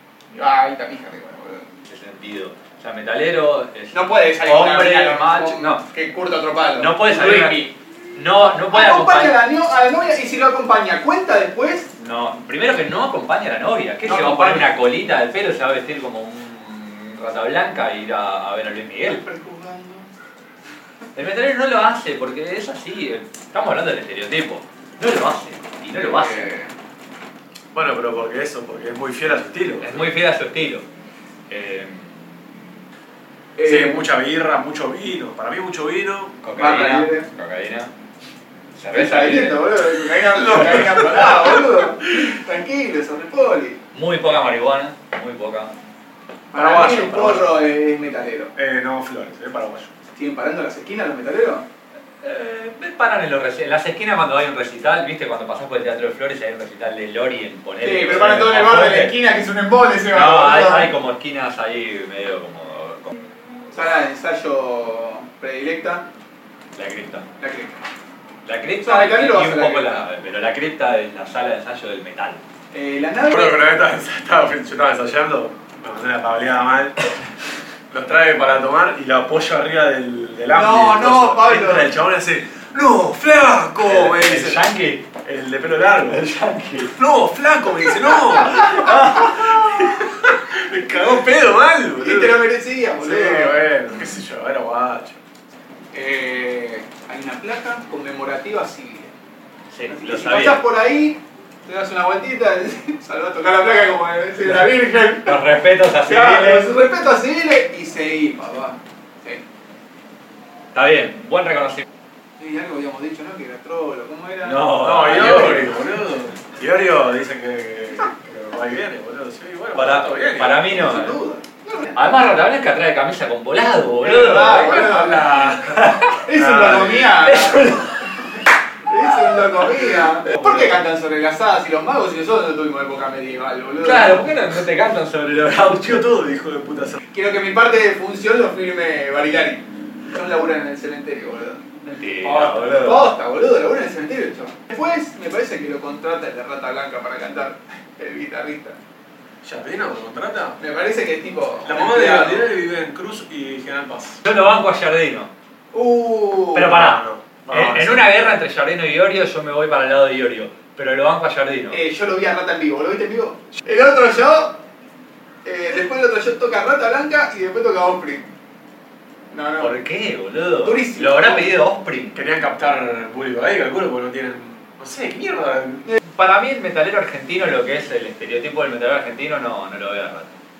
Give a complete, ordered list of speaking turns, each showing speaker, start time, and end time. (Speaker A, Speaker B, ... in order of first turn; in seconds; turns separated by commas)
Speaker A: 0.3-1.7, Speaker B: 1.9-5.8, Speaker A: 3.9-7.8, Speaker B: 6.8-9.4, Speaker A: 8.7-11.9, Speaker B: 12.0-19.2, Speaker A: 14.1-14.7, Speaker A: 19.0-20.1, Speaker B: 21.1-26.5, Speaker A: 26.0-26.7, Speaker C: 27.7-30.1, Speaker B: 29.8-30.9, Speaker B: 31.5-32.3, Speaker A: 33.6-34.0, Speaker C: 33.6-36.4, Speaker B: 36.4-37.9, Speaker A: 36.6-37.3, Speaker B: 38.8-39.6, Speaker A: 38.9-43.8, Speaker C: 40.4-41.6, Speaker B: 43.9-45.7, Speaker A: 46.5-48.5, Speaker C: 46.5-47.6, Speaker C: 48.6-49.9, Speaker A: 50.1-51.6, Speaker B: 52.2-59.1, Speaker A: 57.8-60.9, Speaker B: 60.1-63.1, Speaker A: 63.7-66.1, Speaker B: 66.8-67.3, Speaker A: 67.4-67.8, Speaker B: 68.5-72.4, Speaker A: 68.8-70.1, Speaker A: 72.7-73.8, Speaker C: 73.3-77.1, Speaker C: 77.9-84.7, Speaker A: 80.5-81.9, Speaker B: 83.8-85.0, Speaker C: 85.2-86.3, Speaker B: 86.0-87.0, Speaker C: 86.8-92.4, Speaker B: 88.8-89.3, Speaker A: 92.0-93.6, Speaker C: 93.0-95.2, Speaker A: 95.9-99.1, Speaker B: 99.7-100.6, Speaker A: 99.9-105.4, Speaker B: 105.2-106.7, Speaker A: 106.0-109.4, Speaker B: 110.7-111.8, Speaker A: 112.4-114.7, Speaker B: 114.4-115.7, Speaker C: 114.7-120.7, Speaker B: 119.7-121.2, Speaker A: 120.7-122.1, Speaker B: 121.9-125.0, Speaker A: 124.0-125.6, Speaker C: 124.4-125.8, Speaker B: 125.7-127.9, Speaker A: 126.2-128.0, Speaker A: 128.9-134.3, Speaker B: 133.8-136.1, Speaker C: 135.8-137.0, Speaker A: 137.1-141.6, Speaker B: 141.8-143.1, Speaker A: 142.2-148.8, Speaker C: 149.4-150.6, Speaker A: 150.6-152.5, Speaker C: 151.6-154.2, Speaker B: 154.2-155.3, Speaker A: 155.7-156.8, Speaker B: 156.5-161.8, Speaker C: 156.7-158.1, Speaker A: 161.7-164.6, Speaker A: 165.4-168.3, Speaker A: 169.3-169.8, Speaker B: 169.6-172.2, Speaker A: 170.6-171.5, Speaker C: 172.2-175.9, Speaker B: 176.0-180.4